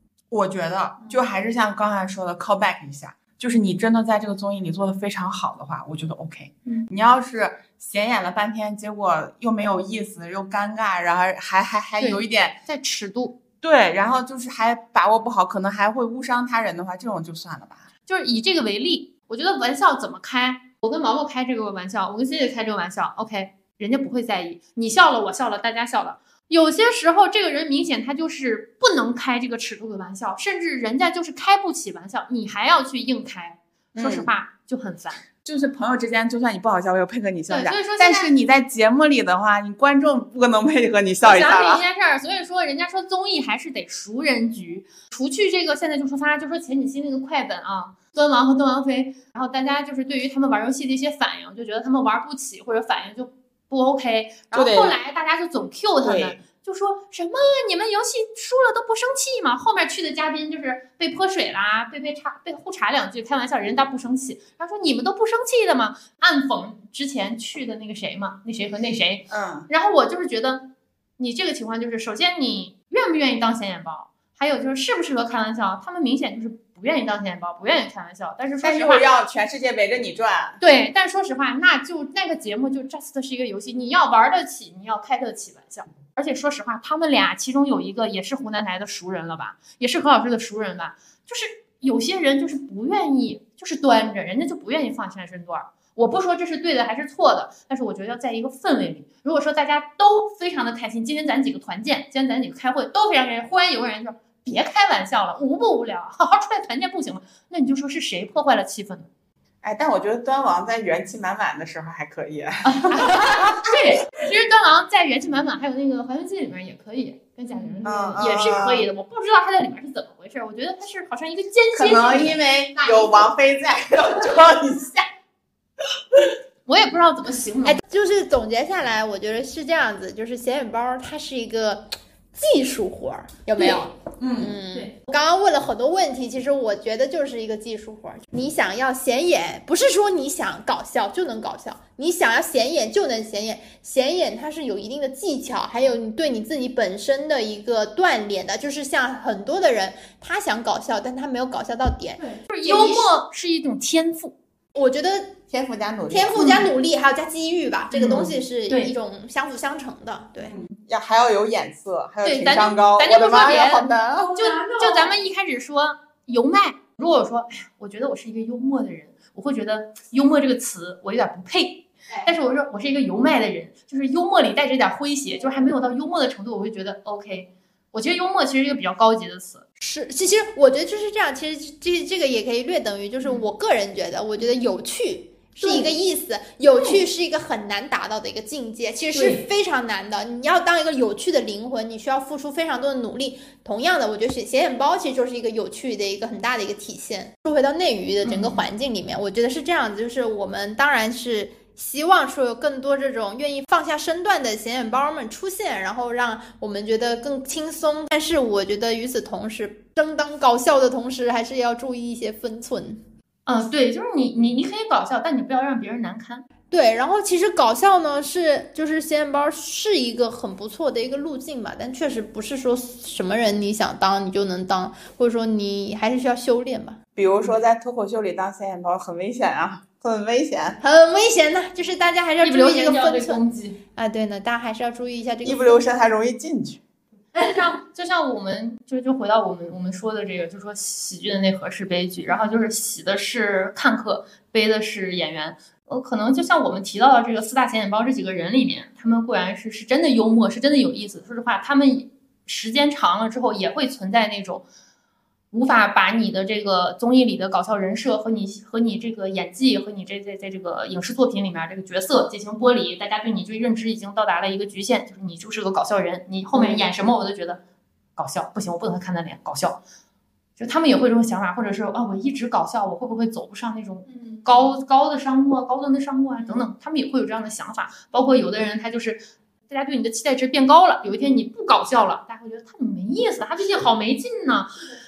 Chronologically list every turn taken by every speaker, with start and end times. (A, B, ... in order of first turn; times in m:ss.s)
0:00.3-0:12.6 A
0:12.0-0:13.4 B
0:13.6-0:17.9 A
0:18.1-0:35.2 B
0:33.9-0:34.3 A
0:35.4-0:41.8 A
0:37.5-0:38.3 B
0:41.2-1:19.0 B
0:54.5-0:55.0 A
0:56.0-0:56.4 A
1:09.3-1:09.7 A
1:18.6-1:20.6 A
1:20.6-1:49.1 B
1:49.6-1:53.7 A
1:52.6-2:02.4 B
1:57.5-1:57.8 C
1:57.8-1:58.9 A
2:01.7-2:05.1 A
2:02.8-2:03.3 C
2:06.7-2:07.8 B
2:07.6-2:33.2 C
2:14.2-2:14.5 A
2:32.2-2:34.3 B
2:34.7-2:35.4 C
2:35.5-2:36.3 A
2:36.1-2:40.6 C
2:36.3-2:36.7 B
2:37.9-2:38.9 B
2:40.4-2:44.6 A
2:42.2-2:59.6 B
2:59.8-3:33.0 C
3:05.6-3:05.9 B
3:09.1-3:09.4 B
3:18.2-3:18.6 B
3:33.4-3:36.4 B
3:36.7-3:47.0 C
3:47.2-3:50.8 A
3:50.8-3:55.8 C
3:52.4-3:53.8 B
3:55.4-3:56.8 A
3:57.3-4:14.6 B
4:15.5-4:27.6 B
4:26.5-4:26.8 C
4:28.2-4:29.8 B
4:30.6-4:44.7 B
4:34.2-4:34.4 C